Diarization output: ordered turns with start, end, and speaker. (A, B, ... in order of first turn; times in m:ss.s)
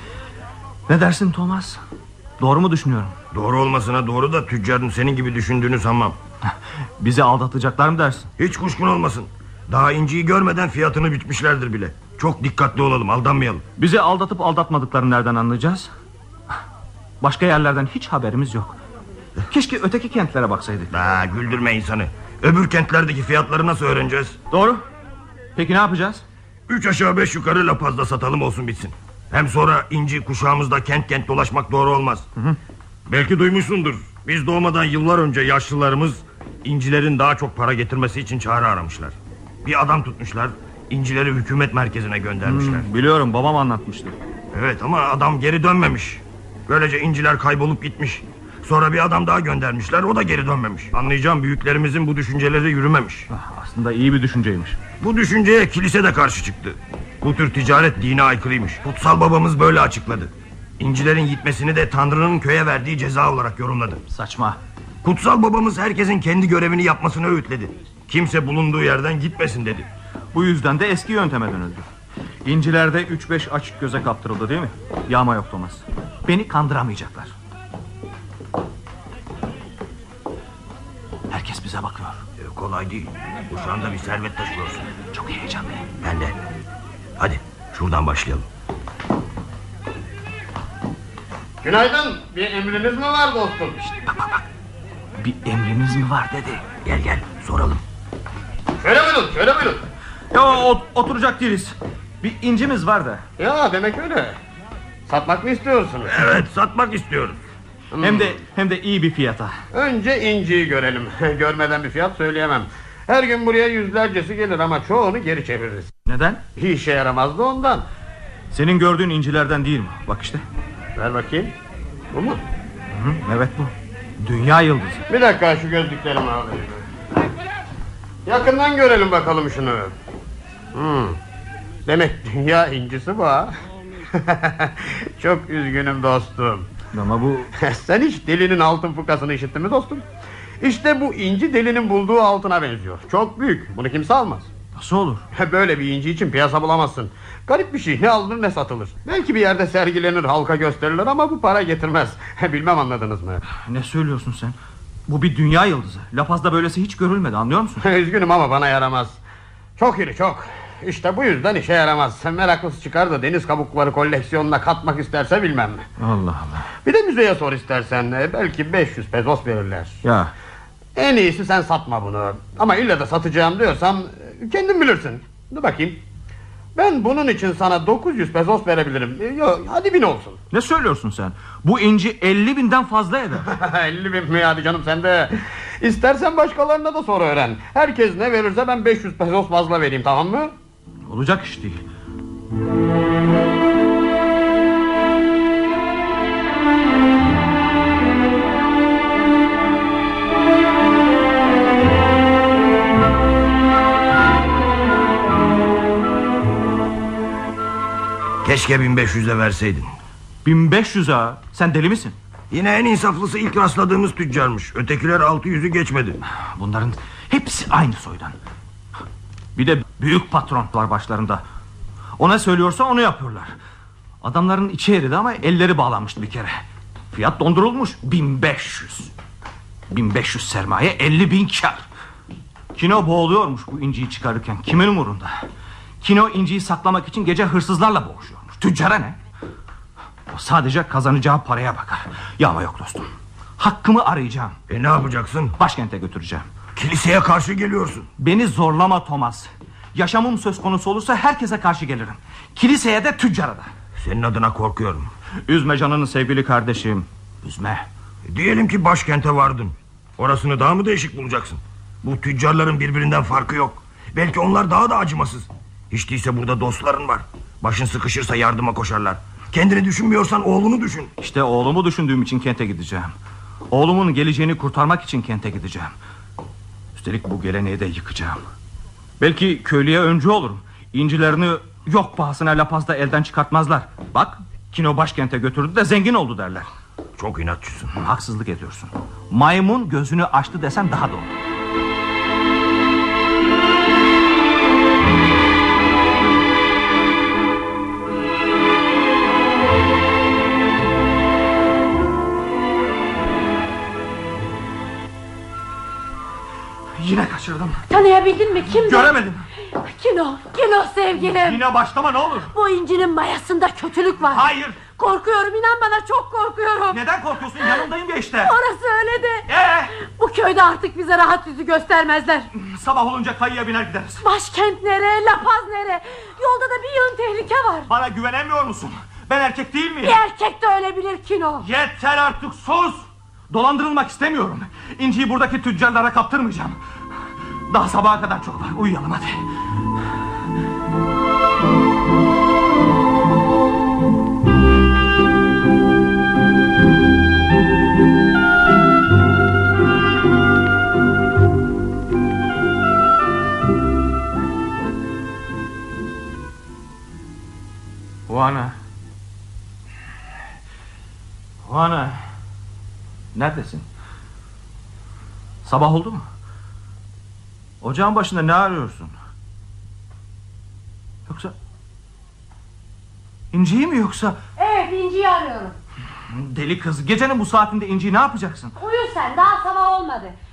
0:00.9-0:01.8 A
0:02.4-0:03.1 A
0:03.3-0:06.2 B
0:07.0-0:08.3 A
0:08.4-0:13.6 B
0:13.8-0:15.9 A
0:17.2-0:18.8 A
0:19.5-0:20.9 A
0:20.9-0:24.4 B
0:24.5-0:24.8 A
0:25.6-0:26.2 A
0:26.7-0:32.3 B
0:33.1-0:42.9 B
0:42.4-0:44.2 A
0:44.5-0:53.3 B
0:53.3-0:54.8 A
0:55.0-1:04.0 B
1:04.1-1:04.6 A
1:05.0-1:09.9 B
1:10.3-1:11.8 A
1:12.4-1:17.3 A
1:21.3-1:22.2 A
1:22.4-1:24.9 B
1:25.1-1:25.9 A
1:26.0-1:26.4 B
1:27.2-1:28.5 B
1:31.6-1:33.8 C
1:33.8-1:34.4 A
1:35.2-1:36.6 A
1:36.8-1:37.8 B
1:38.8-1:39.8 C
1:40.3-1:43.2 A
1:43.4-1:44.4 C
1:45.1-1:46.2 C
1:46.1-1:47.4 B
1:47.9-1:48.3 C
1:48.0-1:49.6 A
1:49.7-1:55.9 C
1:56.0-1:56.4 A
1:56.6-1:57.8 C
1:58.5-2:00.4 A
2:01.0-2:01.6 C
2:02.1-2:02.4 C
2:02.9-2:05.0 A
2:05.1-2:06.8 C
2:08.2-2:09.9 C
2:10.7-2:11.2 C
2:11.8-2:13.5 C
2:14.1-2:16.7 C
2:16.9-2:17.5 A
2:17.6-2:20.0 C
2:20.6-2:24.5 C
2:24.8-2:25.2 A
2:25.3-2:33.4 C
2:33.6-2:34.6 A
2:35.1-2:37.8 A
2:37.8-2:39.2 C
2:39.8-2:45.8 C
2:46.0-2:46.7 A
2:46.8-2:50.0 C
2:50.0-2:50.3 A
2:51.0-2:56.0 C
2:56.7-3:00.4 C
3:00.5-3:03.5 A
3:03.4-3:10.5 C
3:11.0-3:11.8 A
3:28.4-3:29.9 B
3:30.4-3:32.2 A
3:32.5-3:36.2 B
3:36.4-3:38.4 A
3:39.5-3:41.4 A
3:42.2-3:43.5 A
3:44.2-3:46.6 A
3:47.1-3:49.1 A
3:49.9-3:51.8 A
3:52.7-3:55.4 A
3:56.0-3:59.2 A
4:00.3-4:04.6 A
4:04.7-4:05.6 B
4:05.6-4:06.4 A
4:06.8-4:08.1 B
4:08.2-4:13.7 A
4:14.0-4:15.1 B
4:15.5-4:17.8 A
4:18.3-4:31.1 B
4:31.2-4:33.1 A
4:33.7-4:35.9 A
4:37.0-4:38.4 A
4:39.2-4:46.7 A
4:47.2-4:47.9 B
4:47.9-4:51.3 A
5:07.0-5:07.8 A
5:07.9-5:11.6 D
5:08.7-5:09.5 A
5:11.2-5:12.5 A
5:12.5-5:17.0 D
5:14.3-5:14.8 A
5:16.9-5:18.5 A
5:18.4-5:22.5 D
5:19.5-5:19.9 A
5:22.5-5:24.2 A
5:24.2-5:27.9 D
5:27.9-5:30.2 A
5:30.0-5:31.7 D
5:31.6-5:36.8 A
5:37.7-5:39.4 A
5:58.3-5:58.8 A
6:01.6-6:02.2 A
6:03.3-6:03.8 A
6:05.6-6:06.2 A
6:07.8-6:09.1 A
6:11.3-6:11.5 A
6:13.5-6:14.4 A
6:14.6-6:15.8 D
6:16.3-6:18.7 A
6:18.8-6:20.4 D